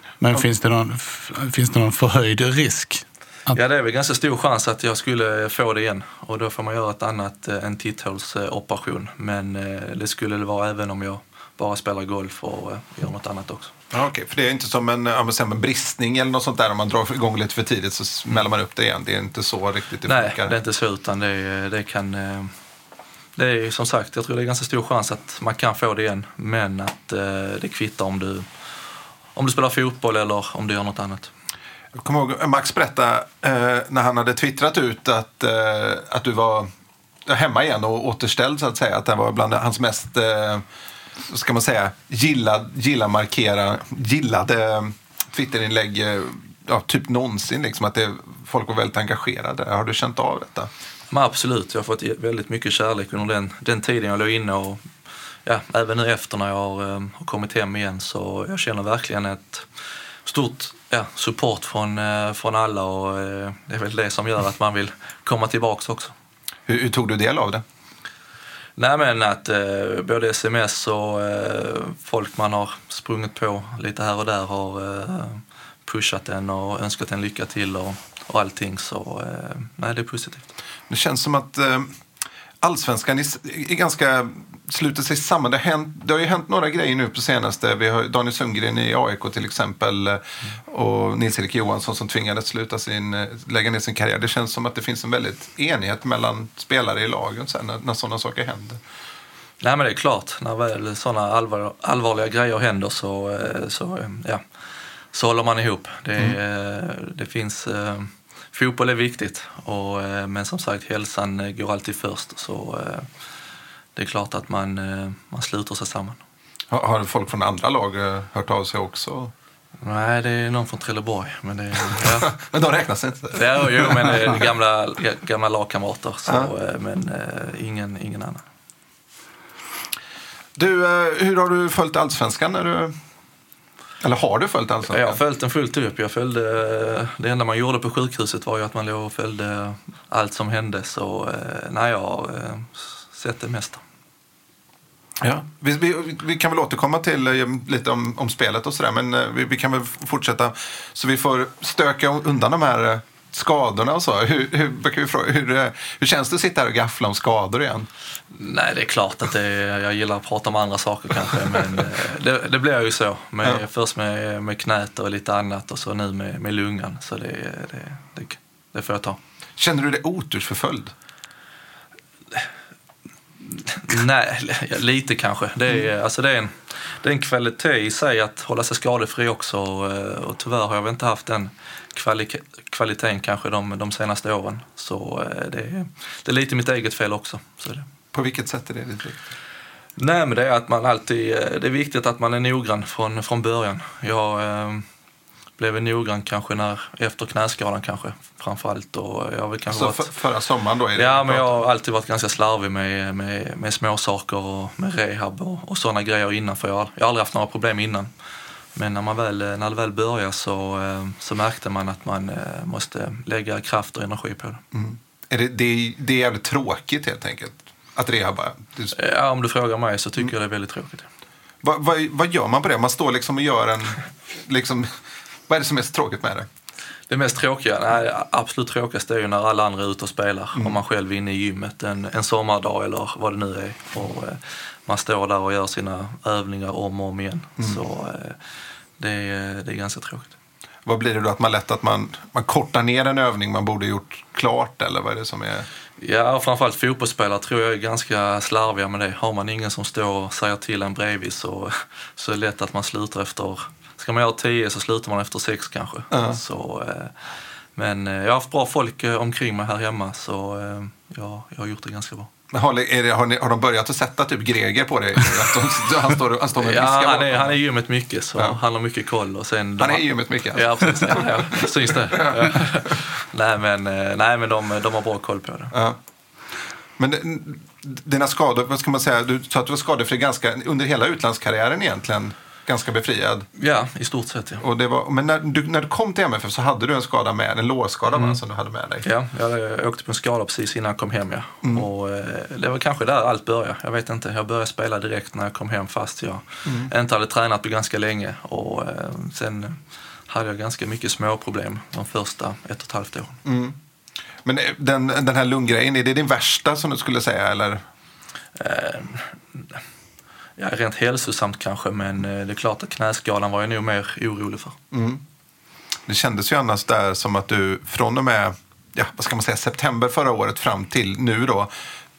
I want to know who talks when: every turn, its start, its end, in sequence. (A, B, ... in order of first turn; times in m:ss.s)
0:00.2-0:03.6 A
0:03.5-0:13.7 B
0:13.9-0:20.6 C
0:20.1-0:22.5 B
0:23.4-0:28.5 B
0:29.4-0:31.3 B
0:31.9-0:36.7 C
0:37.2-0:40.6 C
0:41.2-0:50.7 C
0:51.1-0:54.9 B
0:55.4-0:59.7 B
1:00.2-1:06.1 B
1:06.7-1:07.6 C
1:08.8-1:20.5 B
1:20.9-1:22.0 C
1:22.6-1:38.8 C
1:39.6-1:44.4 B
1:45.1-1:53.1 B
1:54.0-1:56.2 B
1:56.7-1:59.3 C
1:59.8-2:02.3 B
2:01.9-2:04.4 C
2:03.3-2:08.4 B
2:06.2-2:06.5 C
2:10.6-2:13.0 C
2:14.0-2:15.2 C
2:14.9-2:23.8 B
2:25.2-2:37.9 C
2:38.3-2:49.2 B
2:49.6-2:50.9 C
2:53.5-3:07.9 B
3:08.1-3:09.3 C
3:10.0-3:14.8 B
3:15.6-3:20.1 B
3:19.7-3:21.6 C
3:21.0-3:28.1 B
3:28.8-3:34.6 B
3:34.7-3:39.0 C
3:38.9-3:41.1 B
3:41.6-3:46.5 C
3:47.1-3:58.4 B
3:59.0-4:00.3 B
4:00.8-4:05.7 C
4:06.0-4:17.2 B
4:16.1-4:16.4 C
4:17.8-4:22.3 B
4:22.5-4:27.6 C
4:26.6-4:35.7 B
4:29.8-4:33.0 C
4:35.7-4:36.0 C
4:37.0-4:43.5 C
4:43.6-4:44.6 B
4:44.6-4:49.0 C
4:48.1-4:48.4 B
4:49.0-4:59.8 B
4:51.6-4:51.9 C
4:56.6-4:56.9 C
5:00.3-5:03.4 B
5:03.4-5:03.8 C
5:04.4-5:07.8 C
5:08.6-5:09.8 B
5:10.6-5:14.8 B
5:14.9-5:15.2 C
5:16.1-5:21.7 C